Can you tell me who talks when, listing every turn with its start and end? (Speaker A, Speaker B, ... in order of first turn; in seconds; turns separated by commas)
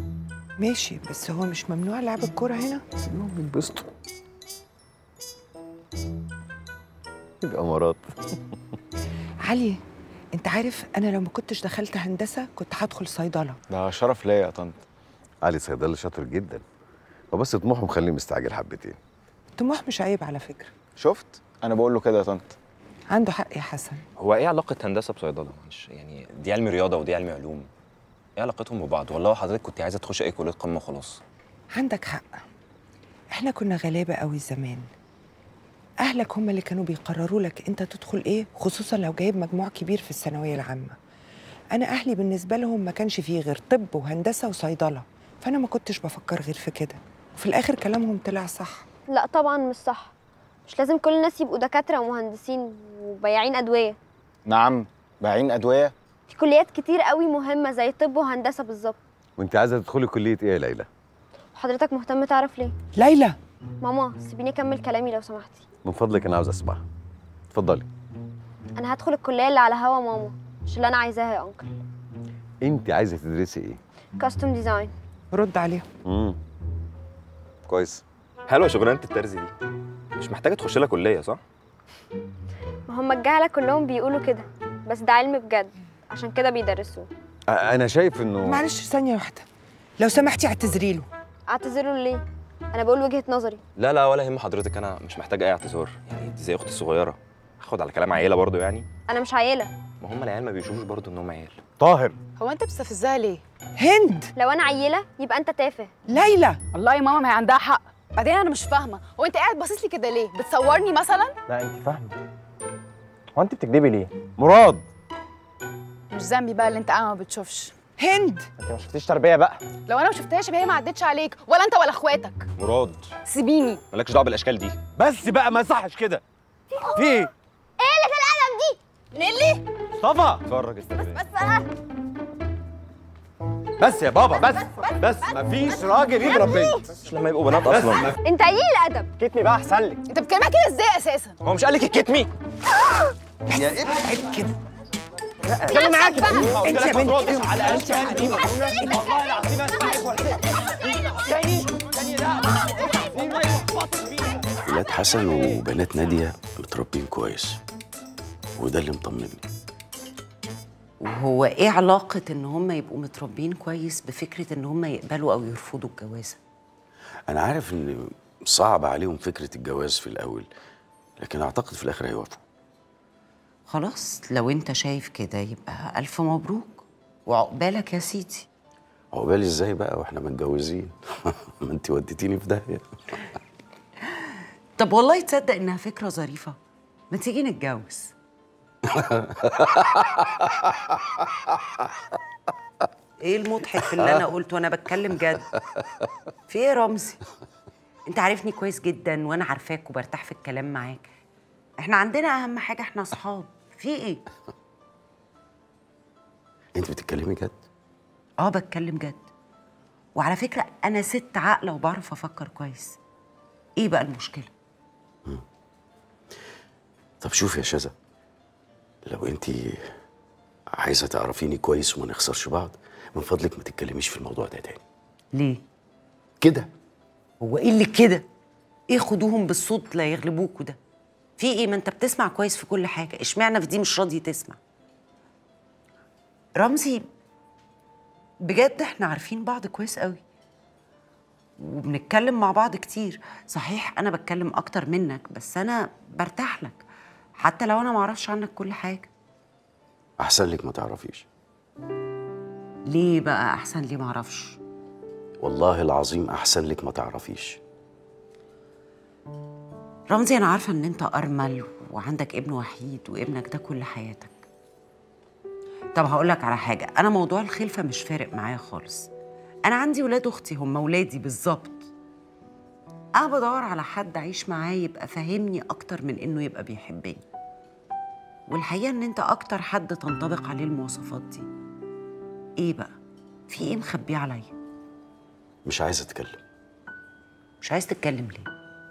Speaker A: 0.6-2.8, Speaker B: 3.0-3.8, Speaker B: 7.4-8.1, Speaker A: 9.4-9.8, Speaker A: 10.3-13.6, Speaker C: 13.7-14.8, Speaker B: 15.4-16.6, Speaker B: 17.3-19.0, Speaker A: 19.6-20.7, Speaker C: 21.0-22.5, Speaker A: 23.1-24.0, Speaker D: 24.2-27.7, Speaker D: 28.4-31.2, Speaker A: 31.7-32.4, Speaker A: 33.3-34.8, Speaker A: 36.0-41.0, Speaker A: 41.7-48.8, Speaker E: 49.1-50.1, Speaker E: 50.7-54.0, Speaker C: 54.5-55.9, Speaker E: 56.3-59.0, Speaker B: 59.4-60.9, Speaker E: 61.5-62.7, Speaker A: 62.9-63.4, Speaker E: 63.8-65.6, Speaker B: 65.8-66.8, Speaker B: 67.5-67.8, Speaker E: 68.8-71.7, Speaker B: 72.6-73.8, Speaker E: 74.2-74.9, Speaker A: 75.3-75.8, Speaker B: 76.0-76.4, Speaker B: 77.7-78.0, Speaker D: 78.5-79.5, Speaker D: 80.2-81.4, Speaker E: 82.9-87.1, Speaker B: 87.5-88.6, Speaker A: 88.4-89.5, Speaker A: 90.0-91.1, Speaker E: 91.5-92.2, Speaker E: 92.7-93.6, Speaker D: 93.8-98.8, Speaker E: 99.1-99.7, Speaker D: 100.0-101.6, Speaker B: 101.8-102.1, Speaker F: 102.4-103.4, Speaker A: 103.8-104.3, Speaker E: 104.4-105.9, Speaker A: 106.1-106.6, Speaker F: 106.7-111.3, Speaker B: 111.5-112.1, Speaker B: 114.4-114.8, Speaker F: 116.1-117.7, Speaker A: 118.0-118.5, Speaker F: 119.8-122.5, Speaker D: 122.6-123.1, Speaker F: 123.2-123.8, Speaker D: 123.9-124.8, Speaker B: 125.0-126.2, Speaker B: 127.0-127.3, Speaker E: 127.8-128.8, Speaker F: 129.2-129.6, Speaker B: 130.0-130.4, Speaker B: 133.8-136.7, Speaker D: 136.9-138.1, Speaker E: 138.2-139.1, Speaker F: 140.1-141.3, Speaker D: 141.4-142.3, Speaker A: 143.5-144.5, Speaker F: 145.8-146.2, Speaker A: 146.2-149.0, Speaker G: 154.6-157.6, Speaker G: 158.6-159.4, Speaker H: 161.0-166.4, Speaker G: 167.3-170.5, Speaker G: 171.2-172.4, Speaker H: 173.7-178.5, Speaker G: 179.1-182.8, Speaker H: 184.8-186.6, Speaker H: 187.1-188.1, Speaker G: 189.0-189.8, Speaker H: 193.2-195.5, Speaker H: 196.5-197.2, Speaker H: 198.1-201.1, Speaker H: 201.8-204.2, Speaker G: 206.7-207.5, Speaker H: 208.4-209.3, Speaker H: 210.1-213.0, Speaker H: 213.8-214.5, Speaker G: 217.2-217.9, Speaker G: 219.1-219.8, Speaker G: 220.8-224.8, Speaker H: 225.3-225.6, Speaker G: 226.4-226.7, Speaker H: 227.4-228.2, Speaker H: 228.9-230.8, Speaker H: 231.4-234.6, Speaker H: 236.6-237.1, Speaker H: 238.4-240.2, Speaker H: 241.6-246.8, Speaker H: 247.4-249.1, Speaker G: 250.2-251.2, Speaker H: 252.9-254.6, Speaker G: 255.4-257.6, Speaker H: 260.1-264.4, Speaker H: 265.9-269.1, Speaker H: 269.6-271.9, Speaker H: 273.2-277.2, Speaker H: 278.5-281.5, Speaker H: 282.6-282.9, Speaker H: 283.5-284.5, Speaker G: 285.6-286.4, Speaker H: 287.6-288.5